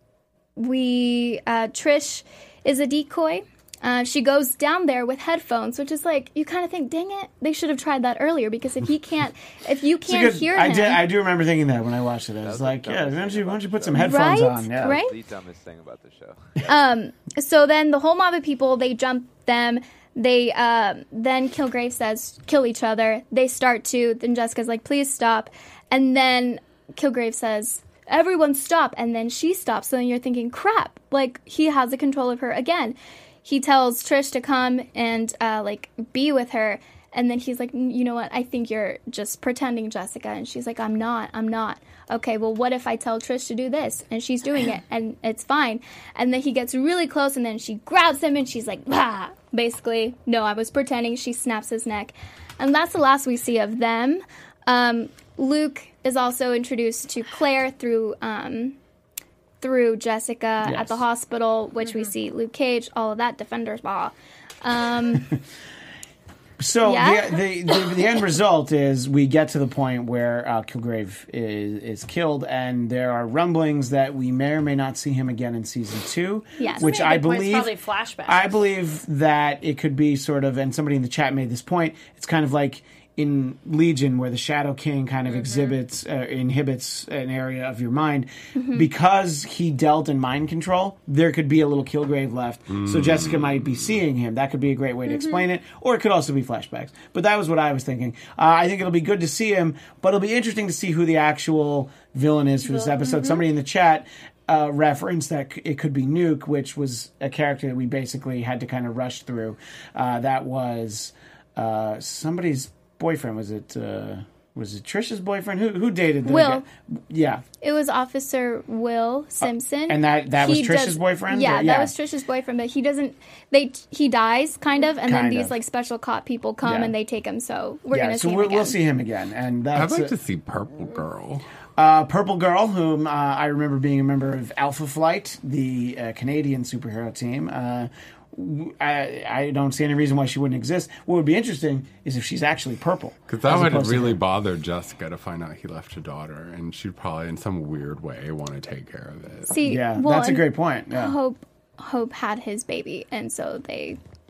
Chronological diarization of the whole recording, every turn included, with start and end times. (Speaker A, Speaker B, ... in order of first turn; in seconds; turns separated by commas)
Speaker A: 0.6-11.0, Speaker B: 10.0-15.0, Speaker C: 12.4-16.8, Speaker A: 13.9-15.2, Speaker A: 16.6-58.8, Speaker A: 59.6-65.3, Speaker B: 60.6-61.0, Speaker B: 66.6-77.7, Speaker A: 66.8-68.1, Speaker A: 76.6-76.9, Speaker D: 76.7-78.6, Speaker B: 78.2-117.4, Speaker D: 85.3-85.8, Speaker A: 88.5-88.9, Speaker E: 92.7-93.8, Speaker D: 95.1-95.4, Speaker D: 102.8-103.4, Speaker A: 116.2-116.6, Speaker A: 117.6-128.8, Speaker B: 119.4-121.9, Speaker B: 125.0-125.6, Speaker B: 126.6-126.9, Speaker B: 127.9-130.1, Speaker E: 129.7-131.4, Speaker B: 131.8-144.2, Speaker E: 143.3-149.5, Speaker A: 149.5-154.0, Speaker B: 149.6-151.2